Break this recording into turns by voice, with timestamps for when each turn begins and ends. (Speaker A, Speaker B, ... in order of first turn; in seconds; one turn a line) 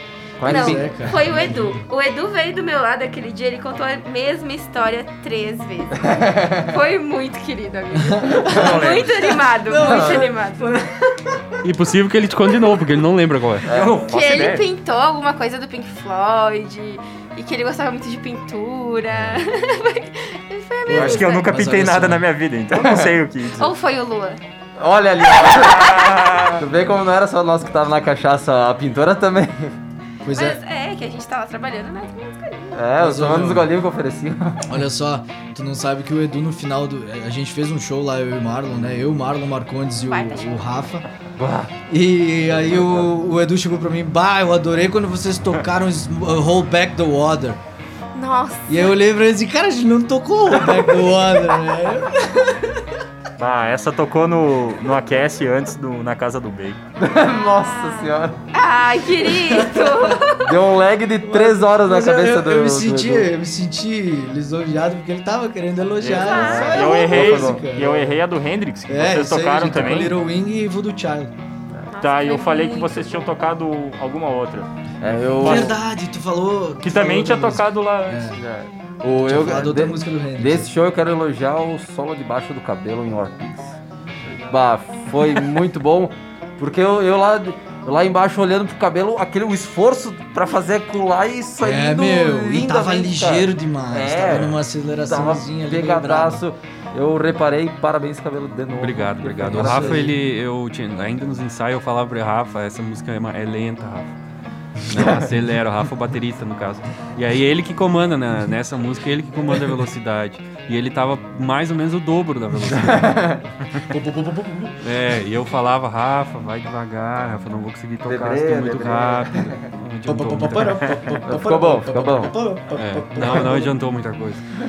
Speaker A: 0.4-1.1
Speaker B: 0.4-1.9
Speaker C: 0.4-10.7
Speaker A: 6.0-6.7
Speaker B: 7.9-11.6
Speaker A: 8.5-8.8
Speaker D: 8.5-9.2
Speaker A: 9.8-10.2
Speaker E: 11.6-13.7
Speaker A: 13.7-14.0
Speaker D: 13.7-14.6
Speaker C: 14.1-21.5
Speaker B: 20.9-22.2
Speaker D: 20.9-23.7
Speaker A: 22.7-23.1
Speaker C: 23.6-24.4
Speaker A: 24.8-29.8
Speaker C: 25.4-26.4
Speaker D: 26.0-26.4
Speaker B: 30.2-30.6
Speaker C: 30.3-32.8
Speaker A: 32.7-34.6
Speaker B: 33.0-33.7
Speaker B: 34.6-41.0
Speaker C: 40.0-40.8
Speaker A: 41.4-41.7
Speaker B: 41.9-47.6
Speaker A: 42.5-43.1
Speaker C: 48.1-48.9
Speaker B: 48.7-52.9
Speaker D: 53.4-56.8
Speaker A: 57.0-58.4
Speaker C: 57.1-60.5
Speaker B: 59.2-60.2
Speaker A: 60.4-63.3
Speaker B: 61.2-68.2
Speaker D: 66.0-70.2
Speaker C: 66.1-67.3
Speaker A: 66.3-67.6
Speaker B: 68.9-71.3
Speaker C: 71.9-73.3
Speaker D: 72.0-74.7
Speaker A: 75.0-75.8
Speaker D: 75.4-75.7
Speaker B: 75.4-78.4
Speaker D: 76.8-78.3
Speaker A: 78.3-83.8
Speaker B: 79.2-80.7
Speaker A: 84.3-100.1
Speaker B: 91.6-96.4
Speaker E: 98.8-104.1
Speaker B: 99.5-100.2
Speaker E: 104.9-113.3
Speaker A: 112.7-113.4
Speaker B: 113.8-114.8
Speaker E: 114.8-120.9
Speaker A: 118.0-119.7
Speaker B: 120.0-123.7
Speaker A: 121.2-122.3
Speaker E: 122.7-124.4